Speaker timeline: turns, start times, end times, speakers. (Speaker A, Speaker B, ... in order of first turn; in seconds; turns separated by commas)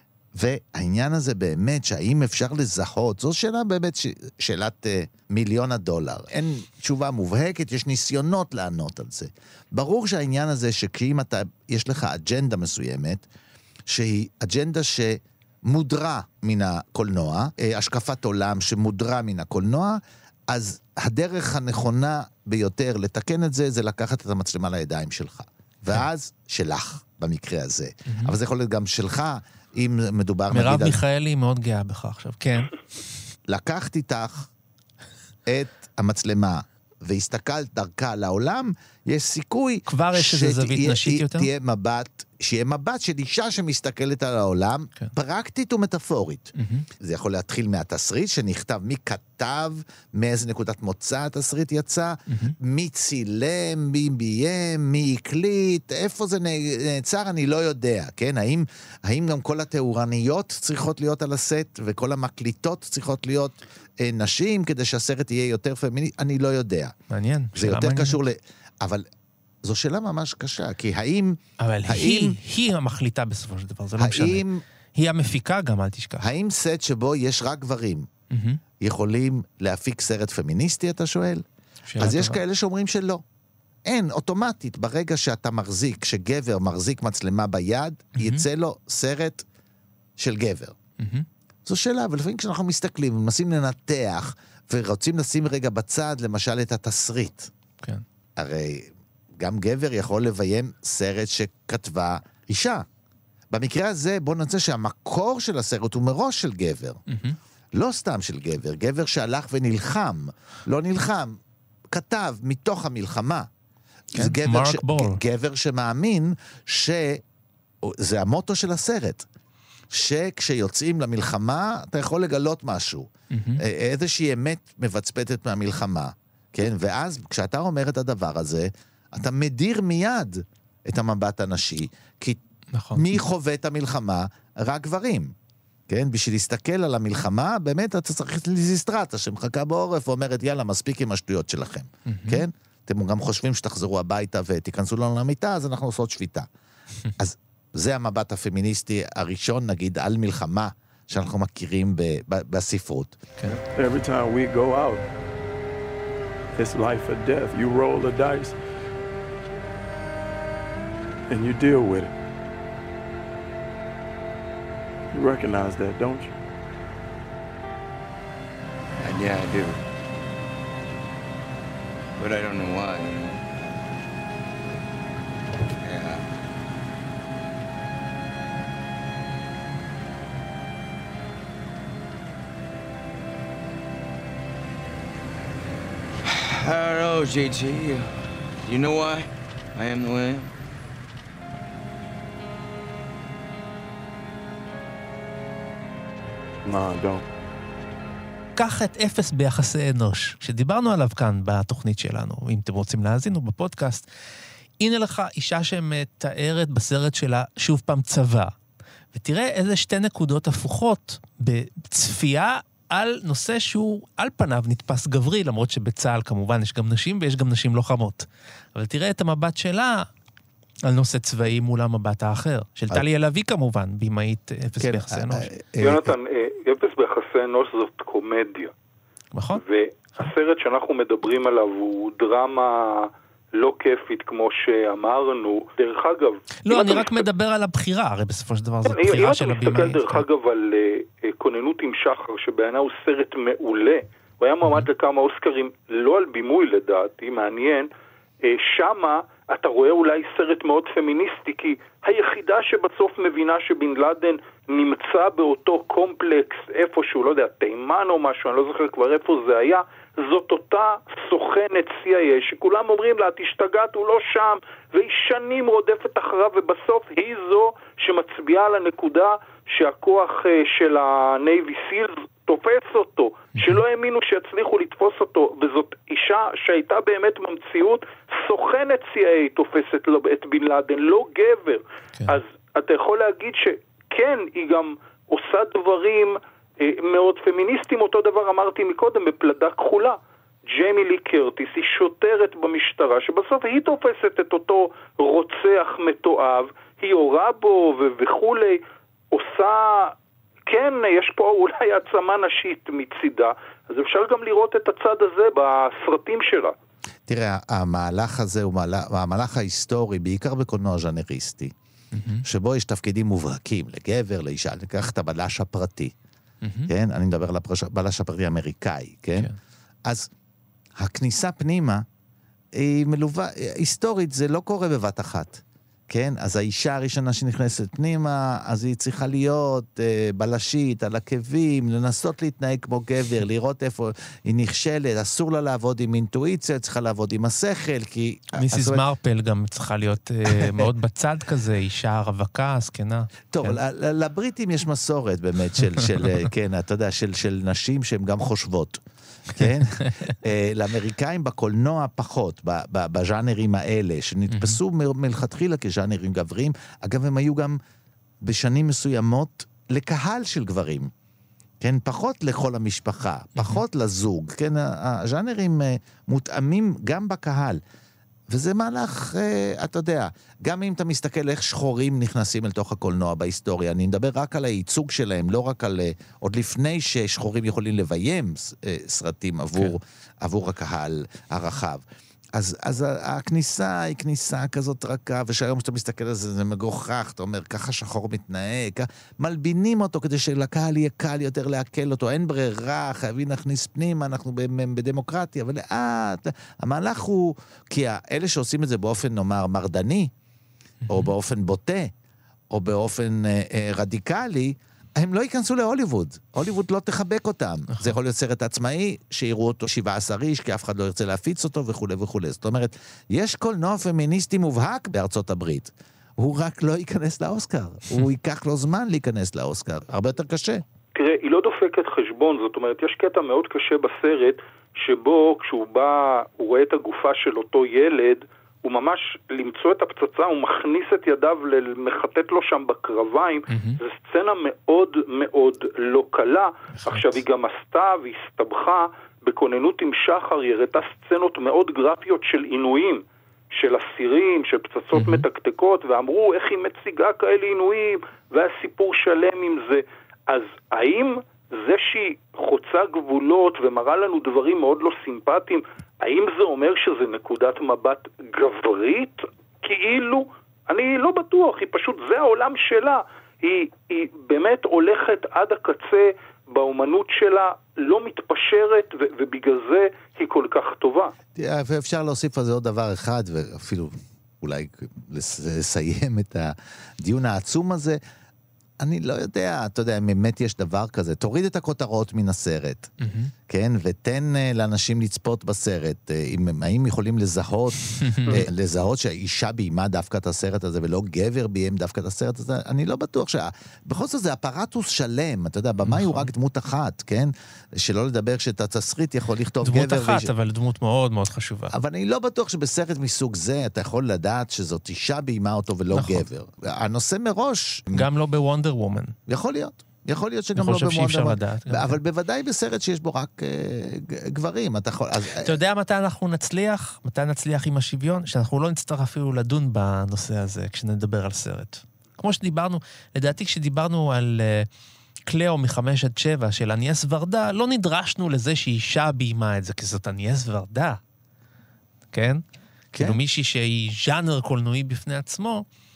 Speaker A: 0.3-13.2, Speaker A: 13.9-31.0, Speaker B: 28.1-28.3, Speaker B: 30.5-33.0, Speaker A: 33.5-34.5, Speaker A: 35.5-66.9, Speaker B: 39.9-41.5, Speaker B: 46.6-46.9, Speaker B: 52.3-52.6, Speaker B: 67.1-68.2, Speaker A: 67.5-69.0, Speaker A: 69.6-72.4, Speaker B: 71.6-74.4, Speaker A: 74.0-74.6, Speaker B: 75.0-76.3, Speaker A: 76.2-78.1, Speaker B: 78.3-78.6, Speaker A: 78.8-81.4, Speaker B: 81.9-82.4, Speaker A: 82.0-83.2, Speaker A: 83.8-89.5, Speaker B: 88.2-88.4, Speaker A: 90.2-90.8, Speaker B: 91.0-91.3, Speaker A: 91.6-97.5, Speaker A: 98.4-102.8, Speaker A: 103.5-107.0, Speaker B: 107.1-107.4, Speaker A: 107.7-111.4, Speaker A: 111.9-113.5, Speaker A: 114.1-117.2, Speaker B: 114.1-115.2, Speaker A: 117.8-119.3, Speaker A: 119.9-132.4, Speaker B: 123.3-123.6, Speaker B: 132.7-133.2, Speaker A: 132.9-135.3, Speaker A: 135.9-146.5, Speaker B: 142.1-142.4, Speaker A: 147.2-153.2, Speaker C: 153.7-155.0, Speaker C: 156.5-158.6, Speaker C: 161.3-162.1, Speaker C: 165.1-166.3, Speaker D: 169.0-169.8, Speaker D: 172.2-173.7, Speaker D: 175.8-176.2, Speaker D: 186.2-190.5, Speaker C: 196.6-197.3, Speaker B: 198.6-204.1, Speaker B: 204.8-208.5, Speaker B: 209.1-220.1, Speaker B: 220.8-225.5, Speaker A: 224.8-226.1, Speaker E: 225.8-228.7, Speaker B: 229.3-229.6, Speaker E: 229.5-237.2, Speaker B: 236.6-240.2, Speaker E: 238.8-247.9, Speaker E: 248.4-290.2, Speaker E: 290.7-300.1, Speaker E: 300.7-306.7, Speaker A: 307.3-311.7, Speaker B: 312.1-312.4, Speaker A: 312.4-316.1, Speaker B: 316.6-316.9, Speaker A: 316.9-319.5, Speaker A: 321.0-322.0, Speaker A: 322.7-339.0, Speaker B: 338.6-343.8, Speaker A: 340.4-340.9, Speaker A: 343.5-349.0, Speaker A: 349.5-357.8, Speaker B: 349.6-350.4, Speaker B: 354.5-354.8, Speaker A: 358.4-361.1, Speaker A: 361.8-367.8, Speaker B: 363.6-363.8, Speaker A: 368.5-382.0, Speaker A: 382.5-400.3, Speaker B: 401.0-401.3, Speaker A: 401.1-402.1, Speaker A: 402.7-420.8, Speaker E: 421.1-471.3, Speaker B: 433.7-434.0, Speaker B: 437.0-437.4, Speaker B: 445.1-445.4, Speaker A: 471.6-478.2, Speaker A: 479.0-483.1, Speaker B: 483.2-483.5, Speaker A: 483.7-500.5, Speaker B: 488.2-488.6, Speaker B: 496.0-496.5, Speaker B: 499.8-501.9, Speaker A: 501.9-508.3, Speaker B: 506.1-506.4, Speaker B: 508.1-509.3, Speaker A: 509.5-515.8, Speaker B: 510.8-512.2, Speaker B: 515.6-524.9, Speaker B: 525.5-531.2, Speaker B: 532.3-532.6, Speaker B: 533.1-535.8